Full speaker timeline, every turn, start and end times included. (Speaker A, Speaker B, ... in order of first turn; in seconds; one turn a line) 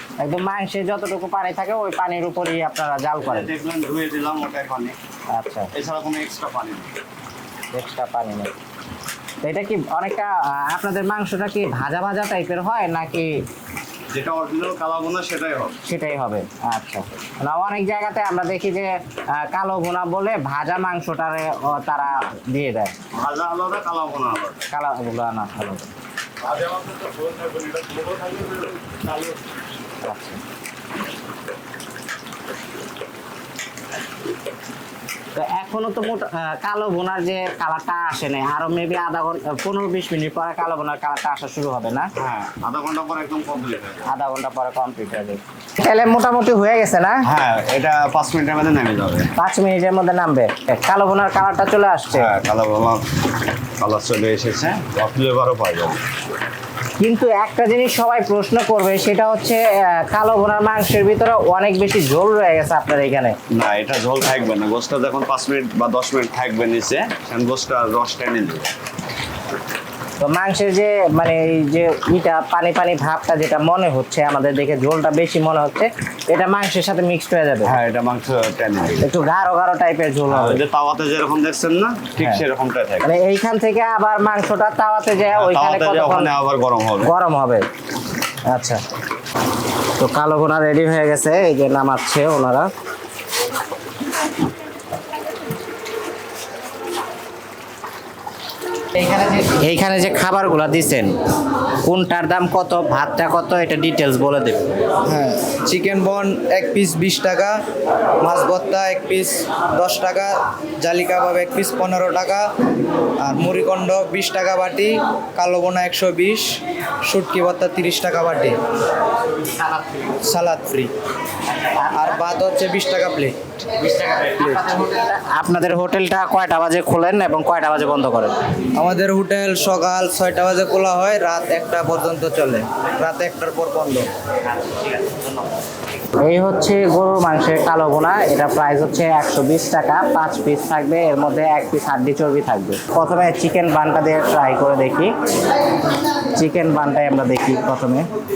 Speaker A: 0.2-3.5
Speaker B: 3.2-5.0
Speaker A: 5.3-5.7
Speaker B: 5.7-7.0
Speaker A: 7.7-8.5
Speaker A: 9.4-13.3
Speaker B: 14.1-15.8
Speaker A: 15.8-22.9
Speaker B: 23.1-24.7
Speaker A: 24.7-25.9
Speaker B: 26.6-28.5
Speaker A: 30.0-30.4
Speaker A: 35.4-42.1
Speaker B: 42.2-44.1
Speaker A: 44.1-47.2
Speaker B: 47.2-49.3
Speaker A: 49.4-52.3
Speaker B: 52.1-53.0
Speaker B: 53.8-56.0
Speaker A: 57.0-63.4
Speaker B: 63.5-68.7
Speaker A: 70.2-77.8
Speaker B: 77.6-79.1
Speaker A: 79.0-80.6
Speaker B: 80.3-83.1
Speaker A: 82.2-82.4
Speaker A: 83.0-86.3
Speaker B: 85.3-87.1
Speaker A: 87.0-87.7
Speaker A: 88.5-88.8
Speaker A: 90.0-92.7
Speaker A: 98.9-101.2
Speaker A: 101.8-104.7
Speaker C: 105.1-107.6
Speaker C: 108.2-110.3
Speaker C: 110.8-112.4
Speaker C: 113.2-116.6
Speaker C: 117.1-118.5
Speaker C: 120.3-120.9
Speaker A: 121.5-122.1
Speaker C: 122.1-123.4
Speaker A: 123.8-128.4
Speaker C: 128.8-134.1
Speaker A: 136.2-145.1
Speaker A: 146.3-148.1